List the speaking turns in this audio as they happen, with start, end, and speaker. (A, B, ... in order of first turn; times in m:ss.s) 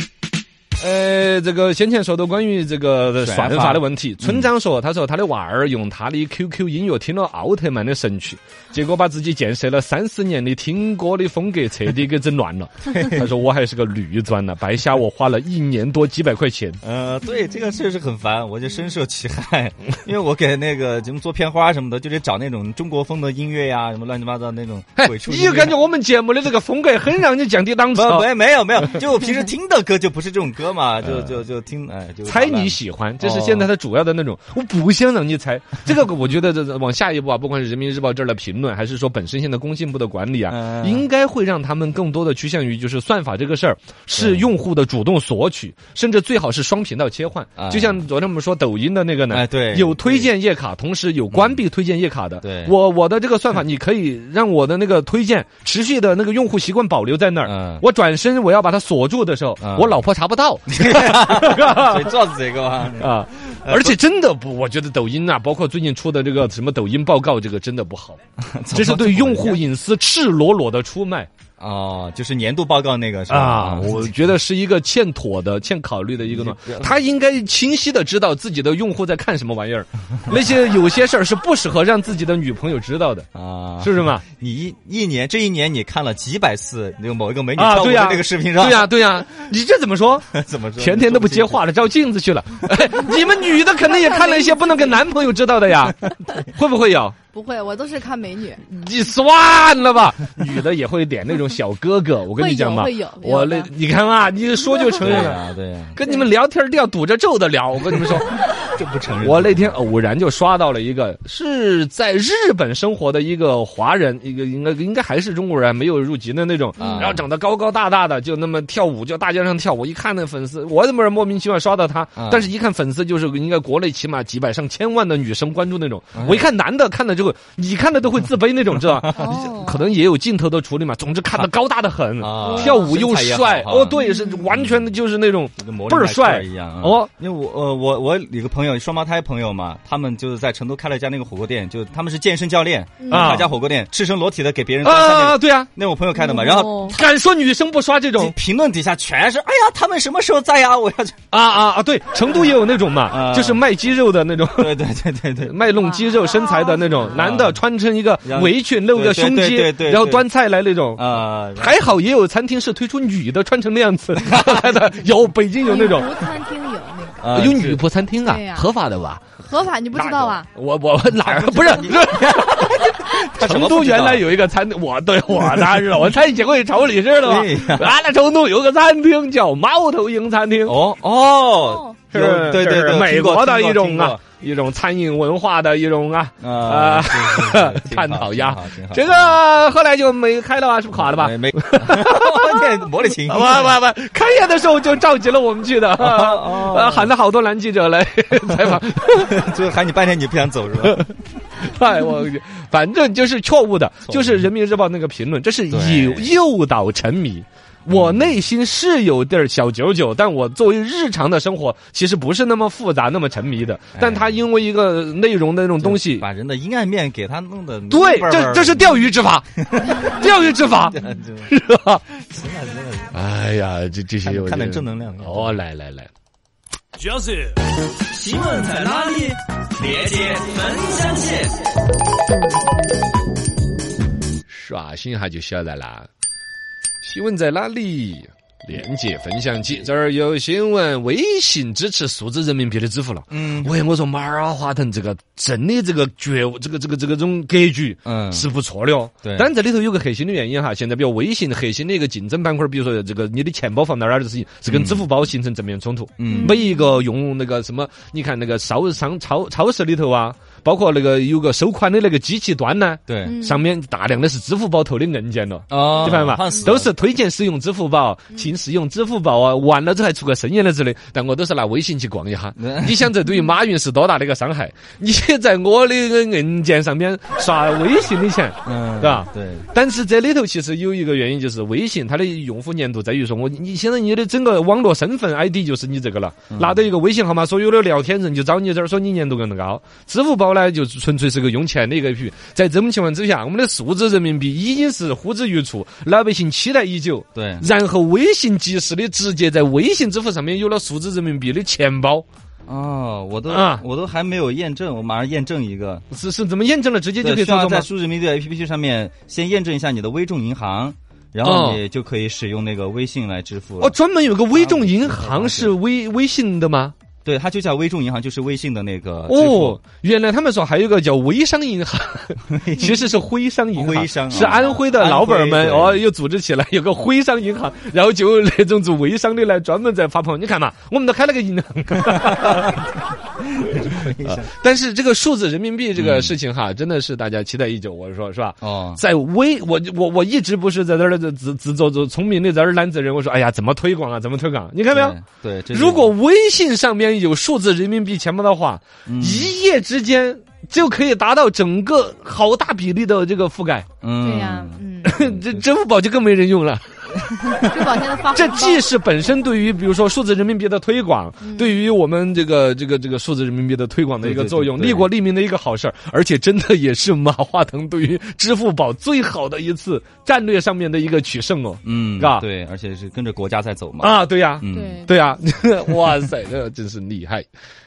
0:00.8-0:16.8 A
0:03.2-0:04.5 B
0:12.9-0:13.3 B
0:16.8-0:25.8 B
0:25.0-0:28.3 A
0:27.9-0:33.7 B
0:32.3-1:02.1 A
0:40.5-0:41.1 B
0:44.1-0:44.5 B
0:47.6-0:48.0 B
0:49.3-0:50.3 B
0:51.3-0:51.6 B
0:52.4-0:52.8 B
0:57.4-0:57.8 B
0:59.6-1:00.0 B
1:00.7-1:04.0 B
1:03.0-1:08.2 A
1:08.4-1:09.6 B
1:08.7-1:11.3 A
1:11.6-1:14.1 B
1:13.3-1:23.3 A
1:16.2-1:16.9 B
1:23.3-1:29.0 B
1:23.8-1:24.2 A
1:27.6-1:37.2 A
1:30.3-1:31.8 B
1:33.8-1:35.0 C
1:37.3-1:38.7 C
1:38.7-1:45.4 A
1:42.3-1:43.7 C
1:45.0-1:46.0 B
1:46.0-1:48.4 A
1:48.5-1:49.8 B
1:49.2-2:17.1 A
1:56.8-1:57.1 C
1:56.8-1:57.2 B
2:02.2-2:02.5 B
2:06.1-2:06.5 B
2:09.2-2:09.9 C
2:12.2-2:14.0 B
2:12.4-2:13.0 C
2:13.9-2:14.5 C
2:14.5-2:14.9 B
2:15.6-2:27.0 B
2:23.0-2:23.5 C
2:23.1-2:23.5 A
2:24.8-2:25.7 A
2:26.2-2:27.0 C
2:26.8-2:28.4 A
2:28.2-2:31.2 B
2:31.3-2:34.8 A
2:33.1-2:33.6 B
2:34.6-2:35.6 B
2:35.5-2:46.3 A
2:35.8-2:37.2 C
2:37.1-2:37.6 B
2:38.2-2:40.3 B
2:41.0-2:41.9 B
2:44.2-2:44.6 B
2:45.6-2:47.3 C
2:47.2-2:47.8 B
2:47.3-2:49.2 A
2:48.2-2:48.7 C
2:49.4-2:50.5 C
2:49.9-3:00.8 A
2:51.2-2:54.2 B
2:57.2-2:57.9 B
3:00.7-3:04.2 B
3:01.7-3:02.0 C
3:02.1-3:12.6 A
3:06.4-3:09.4 B
3:10.9-3:13.8 B
3:13.2-3:19.4 A
3:16.0-3:17.1 B
3:18.6-3:21.1 B
3:20.8-3:36.3 A
3:24.0-3:24.5 B
3:25.7-3:26.3 B
3:27.9-3:28.4 B
3:33.9-3:34.4 B
3:35.8-3:40.2 B
3:37.9-3:42.0 A
3:40.9-3:41.5 B
3:42.1-3:43.2 B
3:43.1-3:46.1 A
3:44.2-3:45.6 B
3:47.1-3:47.4 A
3:48.0-3:51.6 B
3:54.5-3:56.1 A
3:57.0-5:02.2 A
4:03.3-4:03.7 B
4:08.0-4:08.5 B
4:09.2-4:09.5 B
4:14.7-4:15.1 B
4:16.2-4:16.6 B
4:16.3-4:16.9 C
4:23.1-4:23.3 B
4:23.2-4:23.7 C
4:25.7-4:26.9 B
4:26.0-4:26.6 C
4:32.6-4:33.1 B
4:38.6-4:39.7 B
4:46.5-4:46.8 B
4:57.4-4:57.6 B
5:02.7-5:06.0 B
5:03.5-5:03.8 A
5:06.1-5:07.9 A
5:07.2-5:14.0 B
5:11.4-5:11.8 A
5:13.8-5:16.9 A
5:14.5-5:15.8 B
5:17.2-5:19.8 B
5:19.3-5:32.9 A
5:22.5-5:23.0 B
5:23.8-5:26.0 B
5:32.1-5:32.8 B
5:33.4-5:34.5 B
5:33.8-5:45.2 A
5:36.0-5:36.4 B
5:38.6-5:39.0 B
5:44.9-5:46.2 B
5:45.7-5:53.9 A
5:49.1-5:49.5 B
5:54.0-5:55.7 B
5:54.2-5:55.2 C
5:55.0-5:57.7 A
5:57.5-5:58.8 C
5:58.3-6:12.4 A
6:01.4-6:01.8 C
6:04.2-6:05.1 B
6:11.8-6:15.0 B
6:14.0-6:17.5 A
6:14.7-6:15.3 C